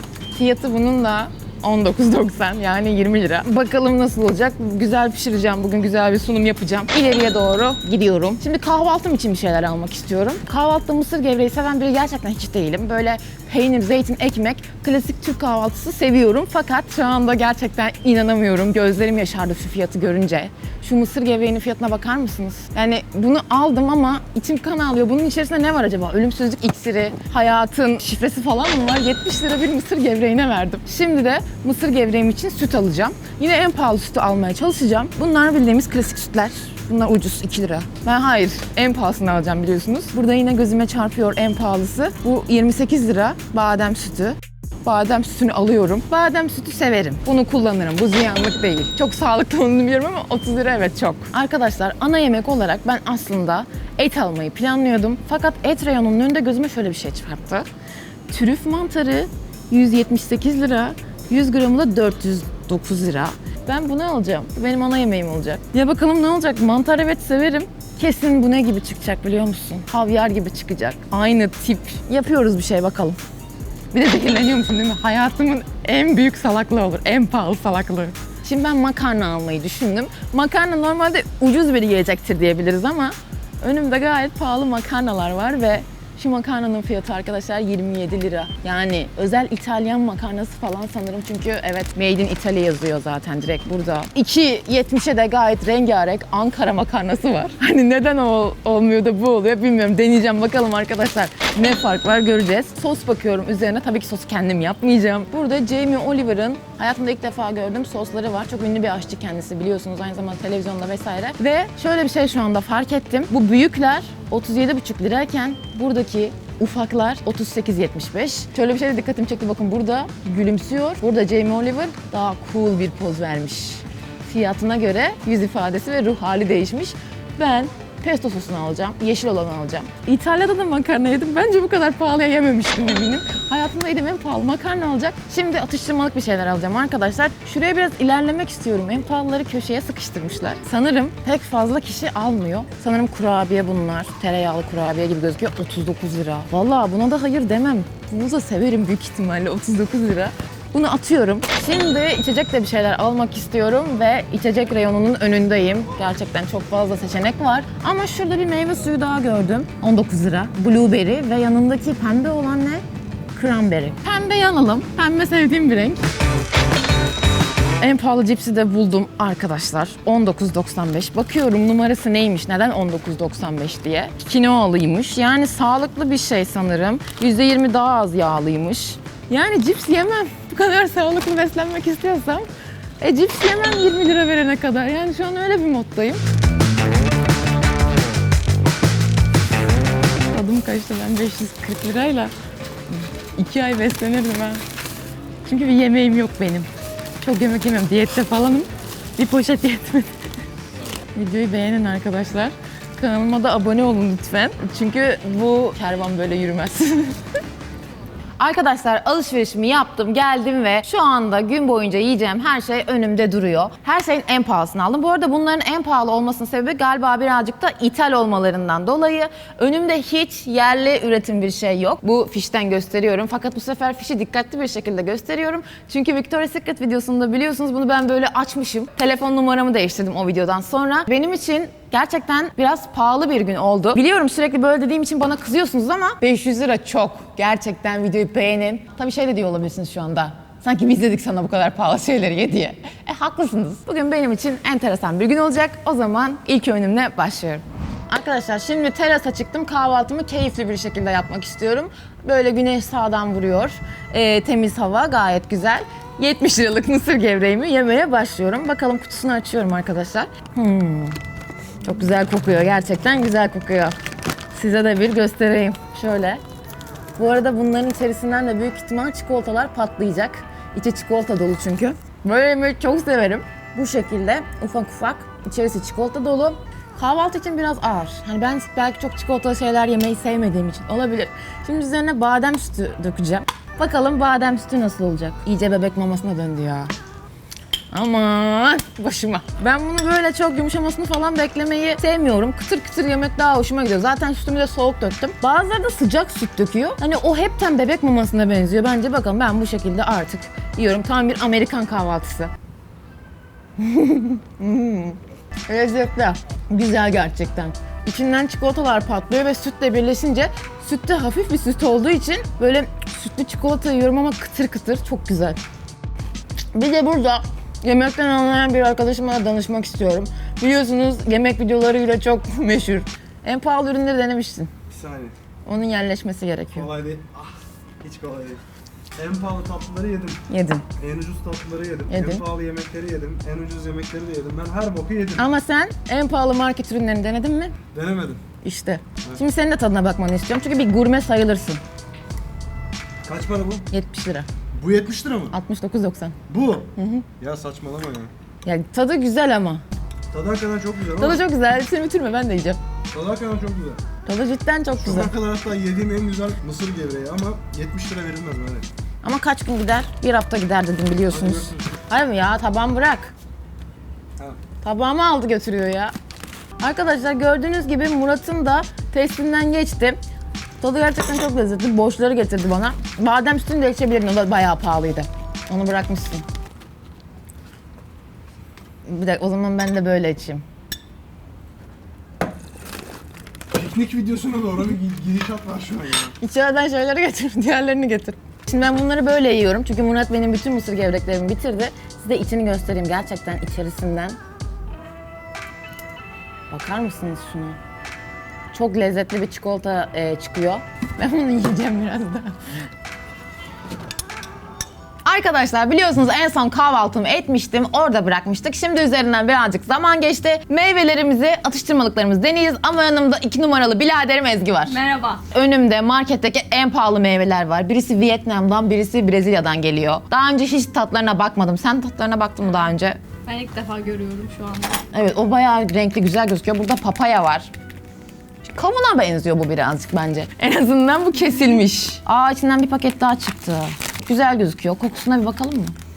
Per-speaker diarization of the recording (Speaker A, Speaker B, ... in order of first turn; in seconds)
Speaker A: 0.3-57.7, 58.3-73.2, 73.9-162.8, 163.3-166.0, 167.8-182.5, 183.0-186.2, 190.3-192.3, 192.9-194.6, 195.4-196.7, 197.2-200.1, 201.1-207.2, 208.4-261.2, 261.8-263.9, 264.5-266.4, 267.2-286.9, 287.9-302.5, 303.8-315.6, 316.7-324.7, 325.6-326.9, 330.5-330.8, 332.1-332.4, 335.4-337.8, 338.6-341.8, 343.9-344.5, 345.5-346.4, 346.9-347.3, 348.6-349.8, 351.2-352.8, 354.2-355.3, 359.2-363.3, 364.8-366.1, 366.8-370.2, 370.8-376.4, 379.0-380.6, 386.4-394.4, 396.7-397.8, 398.7-402.6, 405.2-415.0, 415.5-423.2, 425.1-427.7, 428.6-435.9
Speaker B: 324.9-325.3, 326.7-328.6, 329.1-330.4, 331.0-335.5, 337.9-338.4, 343.2-343.9, 344.7-345.6, 346.5-348.3, 350.3-351.4, 353.1-354.0, 355.0-358.9, 361.3-361.8, 383.7-386.3
Speaker C: 414.9-415.4, 423.4-425.0, 431.4-431.8